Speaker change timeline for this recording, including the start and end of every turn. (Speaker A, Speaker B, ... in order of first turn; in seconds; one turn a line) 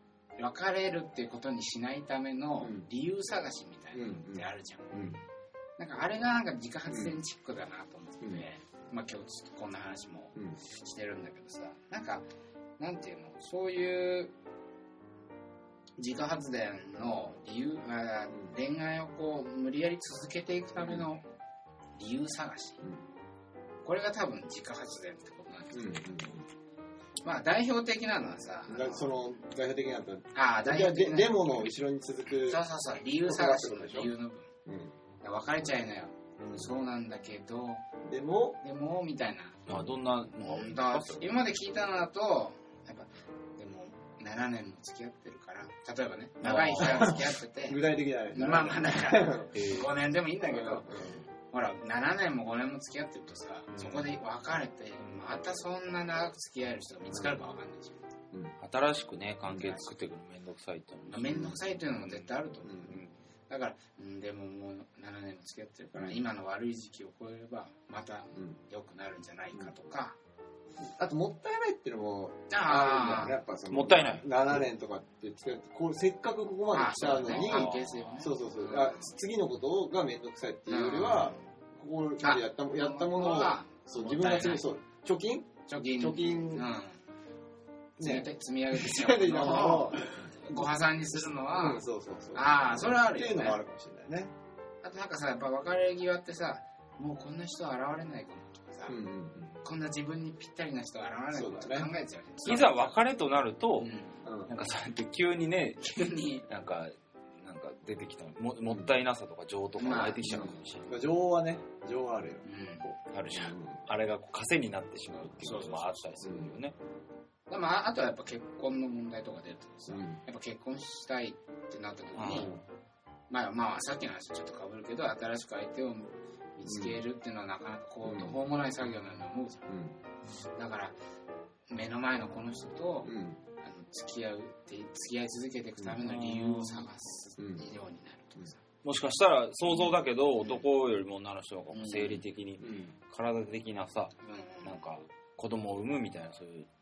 Speaker A: 0.4-5.2
Speaker B: 2.6-2.9
Speaker B: 3.9-5.2
Speaker A: 5.8-12.2
Speaker B: 6.9-7.1
Speaker A: 12.8-14.3
Speaker A: 16.0-21.2
Speaker B: 20.8-21.1
Speaker A: 21.9-22.8
Speaker A: 23.8-26.1
Speaker B: 25.7-26.4
Speaker A: 27.2-29.2
Speaker B: 28.7-32.6
Speaker A: 30.3-31.8
Speaker A: 32.4-34.5
Speaker B: 33.2-34.1
Speaker B: 34.6-34.9
Speaker A: 35.2-37.8
Speaker B: 36.4-36.7
Speaker B: 38.0-38.6
Speaker A: 38.6-39.6
Speaker C: 39.7-41.3
Speaker A: 40.4-58.0
Speaker C: 46.4-47.1
Speaker B: 46.8-49.5
Speaker C: 49.5-49.9
Speaker B: 50.5-51.1
Speaker C: 58.6-62.2
Speaker A: 59.6-59.9
Speaker A: 61.1-63.0
Speaker B: 62.6-63.0
Speaker C: 62.9-63.1
Speaker A: 63.5-70.2
Speaker B: 66.0-66.2
Speaker B: 70.8-86.6
Speaker A: 72.5-73.4
Speaker C: 73.7-74.3
Speaker A: 76.7-79.1
Speaker C: 77.3-78.2
Speaker A: 80.7-81.5
Speaker A: 82.2-84.6
Speaker A: 85.7-87.0
Speaker B: 88.0-90.6
Speaker A: 88.0-91.8
Speaker B: 91.5-94.3
Speaker A: 92.3-93.6
Speaker A: 94.8-99.0
Speaker B: 98.9-99.5
Speaker A: 99.6-103.0
Speaker B: 101.3-101.9
Speaker C: 102.5-103.9
Speaker A: 103.8-104.2
Speaker B: 104.2-104.5
Speaker C: 104.5-110.9
Speaker A: 105.8-106.4
Speaker B: 108.7-108.9
Speaker A: 109.8-110.6
Speaker B: 110.2-113.8
Speaker A: 112.4-112.9
Speaker C: 113.1-116.7
Speaker A: 115.4-116.0
Speaker B: 116.2-116.6
Speaker A: 117.5-122.5
Speaker B: 119.9-120.2
Speaker C: 122.2-122.5
Speaker B: 122.3-122.6
Speaker A: 123.3-129.7
Speaker B: 126.6-127.0
Speaker B: 128.0-128.4
Speaker B: 129.7-129.9
Speaker A: 130.6-130.9
Speaker A: 131.7-138.6
Speaker B: 133.0-133.4
Speaker C: 136.0-136.9
Speaker B: 137.4-137.7
Speaker C: 138.8-144.1
Speaker A: 139.7-140.7
Speaker A: 141.7-142.2
Speaker B: 142.6-142.9
Speaker A: 144.2-144.8
Speaker C: 144.6-146.7